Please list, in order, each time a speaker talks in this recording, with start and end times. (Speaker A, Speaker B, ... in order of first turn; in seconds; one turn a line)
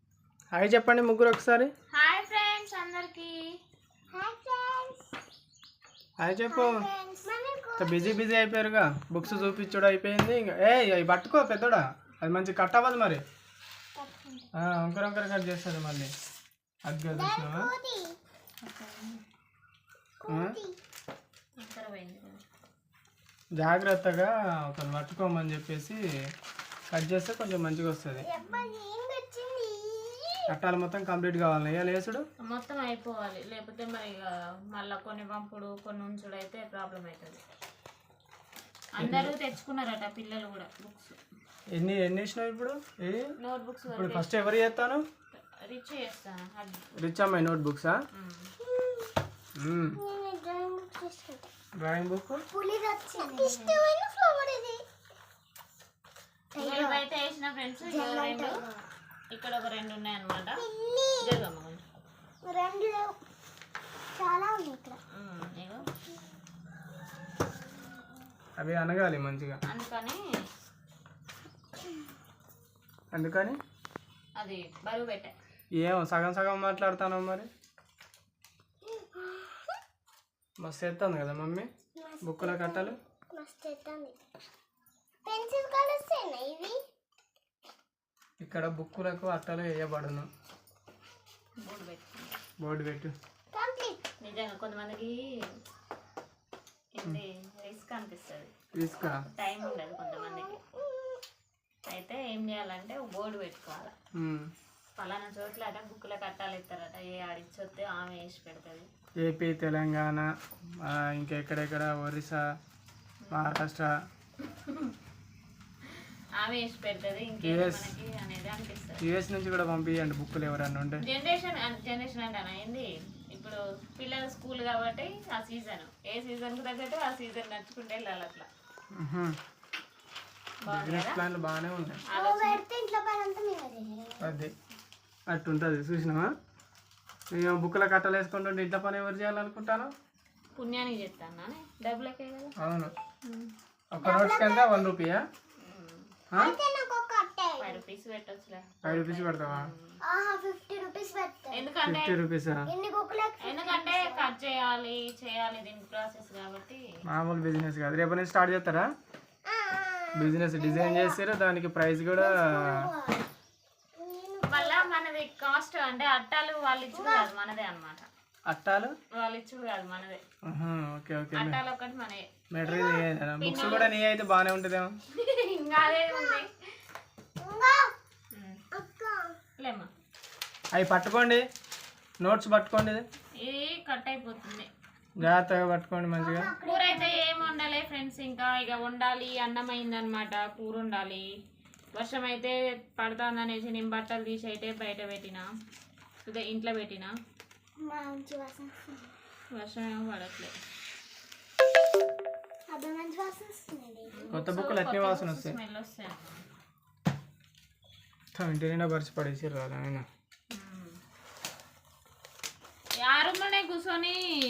Speaker A: 0.5-1.7
Speaker B: 1.9-3.4
Speaker C: 4.1-5.0
Speaker A: 6.2-6.8
Speaker C: 6.5-8.2
Speaker A: 7.8-13.2
Speaker B: 9.2-9.8
Speaker C: 14.0-14.5
Speaker A: 14.6-16.1
Speaker A: 16.9-17.7
Speaker C: 17.1-18.0
Speaker B: 18.6-19.2
Speaker C: 20.2-20.7
Speaker A: 20.3-20.5
Speaker B: 21.6-22.4
Speaker A: 23.6-26.0
Speaker A: 26.9-28.2
Speaker C: 28.1-30.4
Speaker B: 28.4-28.7
Speaker A: 30.5-32.2
Speaker B: 32.4-37.4
Speaker B: 38.9-41.2
Speaker A: 39.0-39.3
Speaker A: 41.8-43.3
Speaker B: 43.4-44.3
Speaker A: 43.9-45.0
Speaker B: 45.3-46.8
Speaker A: 47.0-48.0
Speaker B: 48.1-48.5
Speaker C: 48.6-49.1
Speaker A: 49.6-50.0
Speaker C: 50.0-51.5
Speaker A: 51.8-52.4
Speaker C: 52.5-54.8
Speaker B: 53.2-53.8
Speaker C: 56.5-57.0
Speaker B: 56.6-58.6
Speaker C: 57.8-58.8
Speaker B: 59.3-60.6
Speaker C: 60.6-61.4
Speaker B: 61.2-61.8
Speaker C: 62.5-63.1
Speaker C: 64.2-65.0
Speaker B: 65.2-65.8
Speaker A: 68.6-69.6
Speaker B: 69.7-70.2
Speaker A: 73.1-73.6
Speaker B: 74.4-75.3
Speaker A: 75.8-77.5
Speaker C: 78.9-79.6
Speaker A: 80.6-81.7
Speaker C: 82.0-84.2
Speaker A: 82.2-83.0
Speaker C: 85.2-86.8
Speaker A: 88.4-90.3
Speaker B: 91.6-92.4
Speaker A: 92.6-93.1
Speaker C: 93.5-94.0
Speaker B: 94.2-95.2
Speaker B: 97.0-98.5
Speaker A: 98.8-99.2
Speaker B: 99.2-100.6
Speaker C: 99.8-101.2
Speaker B: 101.9-103.9
Speaker A: 104.2-104.5
Speaker B: 105.0-108.9
Speaker A: 109.2-110.3
Speaker A: 110.8-112.4
Speaker B: 113.2-113.6
Speaker A: 113.3-113.9
Speaker B: 114.4-114.9
Speaker B: 115.9-119.0
Speaker A: 117.4-117.9
Speaker A: 119.0-121.0
Speaker B: 121.0-128.5
Speaker A: 128.9-129.3
Speaker B: 130.6-131.2
Speaker A: 130.6-132.0
Speaker B: 132.1-132.6
Speaker C: 132.1-134.4
Speaker A: 134.2-134.5
Speaker A: 135.3-136.3
Speaker A: 137.3-139.9
Speaker B: 140.6-142.5
Speaker A: 142.6-142.9
Speaker B: 143.2-143.5
Speaker A: 143.9-145.2
Speaker C: 144.0-144.9
Speaker B: 145.6-146.1
Speaker C: 146.4-147.8
Speaker B: 147.6-150.0
Speaker A: 148.8-149.7
Speaker C: 150.0-151.7
Speaker B: 151.5-152.2
Speaker A: 151.8-152.7
Speaker C: 152.7-154.3
Speaker B: 153.4-156.8
Speaker A: 157.1-158.9
Speaker C: 159.5-161.2
Speaker A: 160.2-162.9
Speaker C: 162.2-163.3
Speaker C: 164.0-164.9
Speaker B: 164.5-168.1
Speaker C: 166.9-167.3
Speaker A: 168.5-168.9
Speaker B: 169.1-170.2
Speaker A: 170.5-171.6
Speaker B: 171.3-172.2
Speaker A: 172.5-174.9
Speaker C: 172.6-173.1
Speaker B: 173.4-173.9
Speaker B: 175.2-176.5
Speaker C: 175.8-176.4
Speaker C: 177.4-177.9
Speaker B: 178.3-178.6
Speaker C: 178.7-179.3
Speaker B: 179.6-179.9
Speaker A: 180.7-181.4
Speaker A: 182.2-183.1
Speaker B: 183.4-184.7
Speaker A: 185.2-186.5
Speaker C: 186.2-187.5
Speaker B: 186.6-191.2
Speaker B: 191.9-195.4
Speaker B: 196.2-197.1
Speaker C: 197.8-199.1
Speaker B: 199.5-200.5
Speaker C: 202.7-204.3
Speaker B: 204.1-206.4
Speaker A: 204.3-205.6
Speaker A: 208.3-210.1
Speaker B: 210.5-211.0
Speaker B: 213.0-214.2